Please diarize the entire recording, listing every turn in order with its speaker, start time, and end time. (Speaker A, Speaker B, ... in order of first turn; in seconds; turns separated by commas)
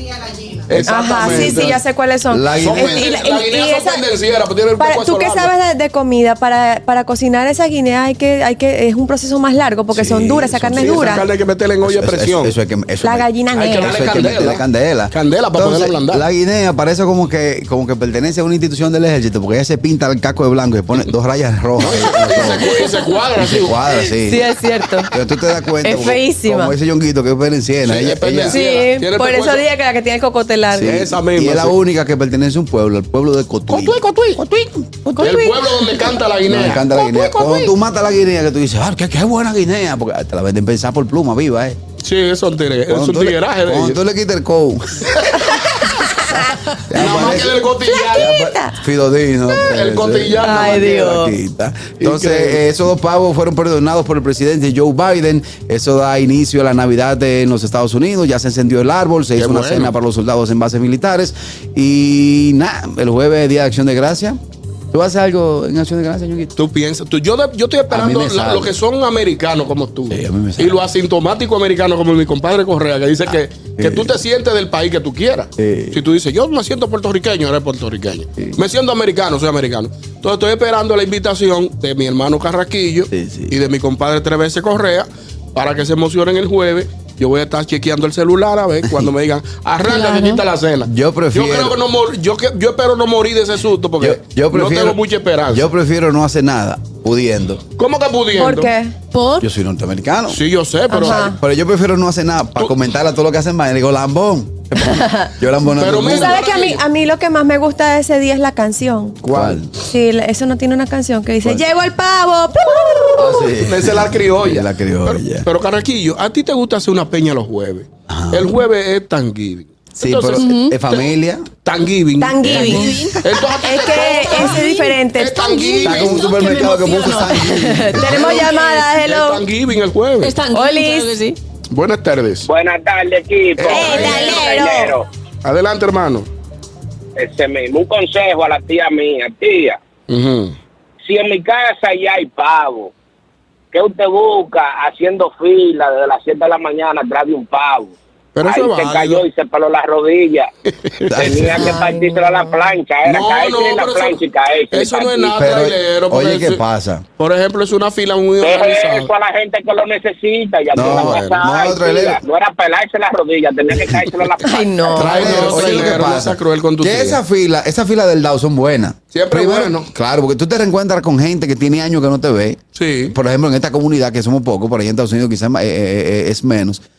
Speaker A: 0.7-1.8, Speaker B: 0.7-3.0, Speaker C: 0.9-4.1, Speaker A: 2.6-5.5, Speaker C: 4.8-11.2, Speaker B: 9.9-11.3, Speaker A: 10.8-12.6, Speaker B: 11.8-22.8, Speaker C: 13.0-14.1, Speaker A: 13.5-16.2, Speaker A: 21.8-23.8, Speaker B: 23.4-24.5, Speaker C: 24.0-25.1, Speaker B: 25.1-28.6, Speaker C: 25.8-26.8, Speaker A: 27.8-29.7, Speaker C: 28.5-31.1, Speaker B: 30.7-35.4, Speaker A: 30.8-31.8, Speaker A: 33.7-34.7, Speaker C: 35.1-35.6, Speaker A: 35.2-37.7, Speaker B: 36.5-41.8, Speaker A: 42.0-44.0, Speaker B: 42.9-45.1, Speaker A: 45.1-45.7, Speaker C: 45.9-46.6, Speaker B: 46.9-47.6, Speaker A: 46.9-48.4, Speaker C: 47.9-48.8, Speaker B: 48.1-64.4, Speaker A: 49.6-51.1, Speaker C: 50.4-51.4, Speaker A: 52.0-52.6, Speaker A: 59.4-59.9, Speaker B: 64.9-66.5, Speaker A: 66.6-95.7, Speaker B: 67.9-68.8, Speaker B: 70.1-70.8, Speaker B: 73.8-74.2, Speaker B: 75.6-76.0, Speaker B: 83.1-83.6, Speaker D: 89.8-90.4, Speaker B: 90.8-91.8, Speaker B: 94.0-97.6, Speaker A: 97.8-98.7, Speaker C: 98.4-99.0, Speaker D: 99.1-99.5, Speaker B: 99.4-100.4, Speaker A: 100.3-101.3, Speaker C: 100.9-101.4, Speaker B: 101.0-106.4, Speaker C: 104.8-105.3, Speaker A: 105.8-106.8, Speaker C: 106.0-109.2, Speaker A: 109.2-109.7, Speaker B: 109.3-109.7, Speaker C: 109.8-113.5, Speaker B: 113.2-115.5, Speaker A: 113.6-121.1, Speaker B: 118.1-118.5, Speaker B: 120.0-121.4, Speaker D: 120.4-120.8, Speaker A: 121.7-122.7, Speaker C: 122.2-126.0, Speaker B: 122.4-122.9, Speaker D: 122.4-127.5, Speaker A: 123.2-124.6, Speaker A: 125.2-126.5, Speaker B: 125.8-128.5, Speaker C: 127.3-129.4, Speaker A: 128.0-130.4, Speaker D: 130.2-131.4, Speaker C: 130.5-131.1, Speaker A: 131.7-132.5, Speaker E: 132.5-135.1, Speaker A: 133.6-134.5, Speaker C: 133.6-135.0, Speaker A: 135.4-136.3, Speaker E: 137.2-139.8, Speaker A: 140.1-140.6, Speaker E: 141.1-142.9, Speaker E: 143.7-150.5, Speaker A: 148.3-149.2, Speaker A: 150.8-151.5, Speaker B: 151.1-151.8, Speaker E: 151.1-155.3, Speaker C: 151.6-152.6, Speaker A: 153.0-156.6, Speaker B: 155.3-157.0, Speaker A: 157.2-159.1, Speaker E: 158.5-165.8, Speaker A: 160.7-161.4, Speaker B: 160.7-162.2, Speaker C: 164.4-165.2, Speaker B: 164.9-172.6, Speaker A: 165.0-167.2, Speaker A: 169.1-169.9, Speaker A: 172.8-173.2, Speaker B: 173.1-176.8